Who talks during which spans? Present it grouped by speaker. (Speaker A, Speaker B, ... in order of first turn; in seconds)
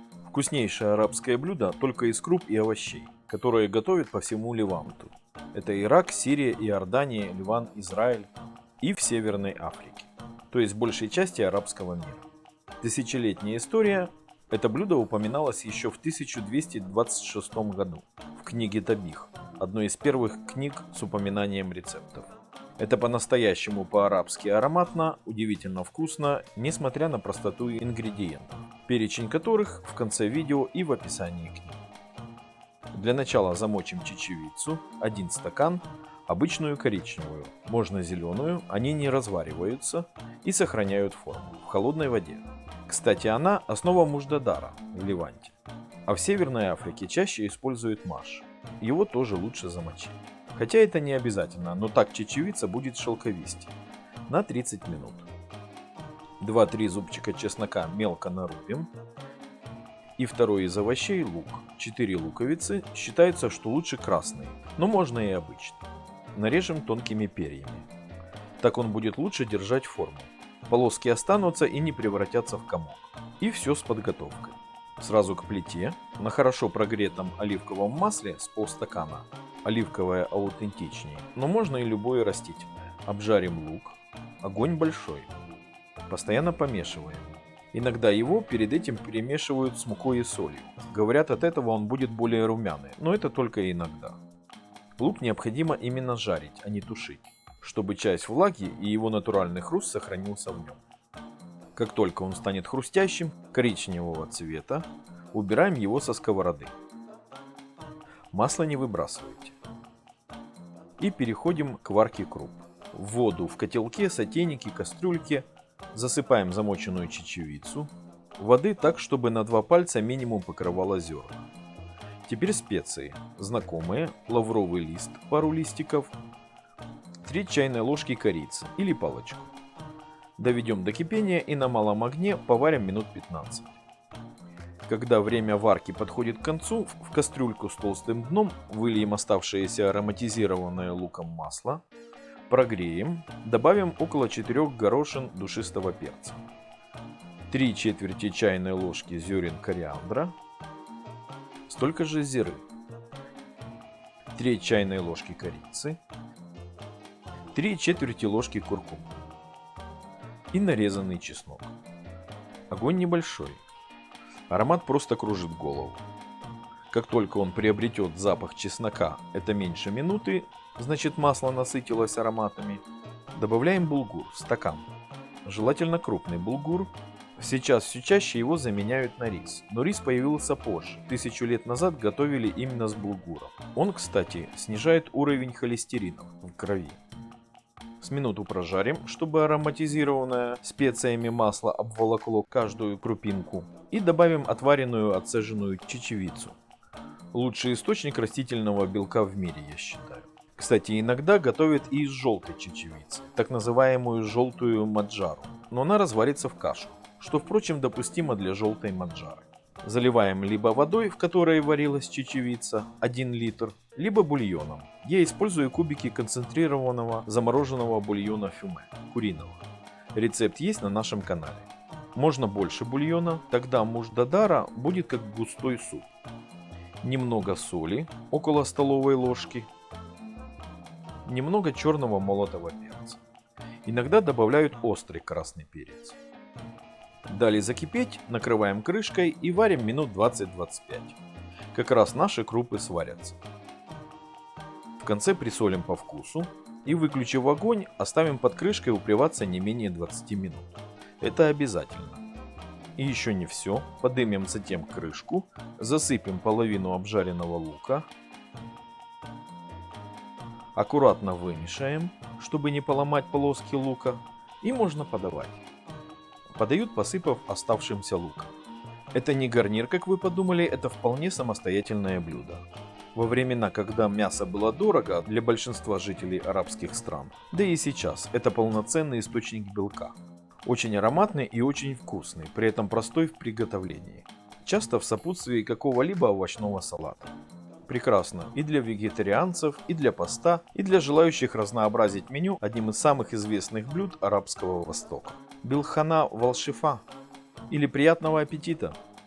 Speaker A: 0.3-12.3, 12.8-31.8, 32.9-45.5, 46.1-53.7, 54.3-55.3, 56.4-58.9, 60.2-65.8, 66.3-67.9, 68.6-85.3, 86.1-94.2, 95.0-100.8, 101.8-106.7, 108.3-109.6, 111.0-121.5, 122.2-126.1, 127.2-129.5, 130.4-133.8, 134.8-141.8, 142.5-146.4, 147.5-150.3, 151.7-152.6, 154.3-156.0, 157.5-159.1, 160.5-161.7, 162.7-163.6, 164.5-166.0, 166.9-172.8, 173.4-174.9, 175.4-187.0, 188.0-196.6, 197.3-226.1, 227.0-229.7, 231.3-233.2, 233.8-236.2, 237.3-241.2, 241.7-243.4, 245.0-252.2, 253.0-258.1, 260.8-265.6, 266.6-268.5, 269.1-272.6, 273.1-287.3, 287.9-297.0, 297.7-299.0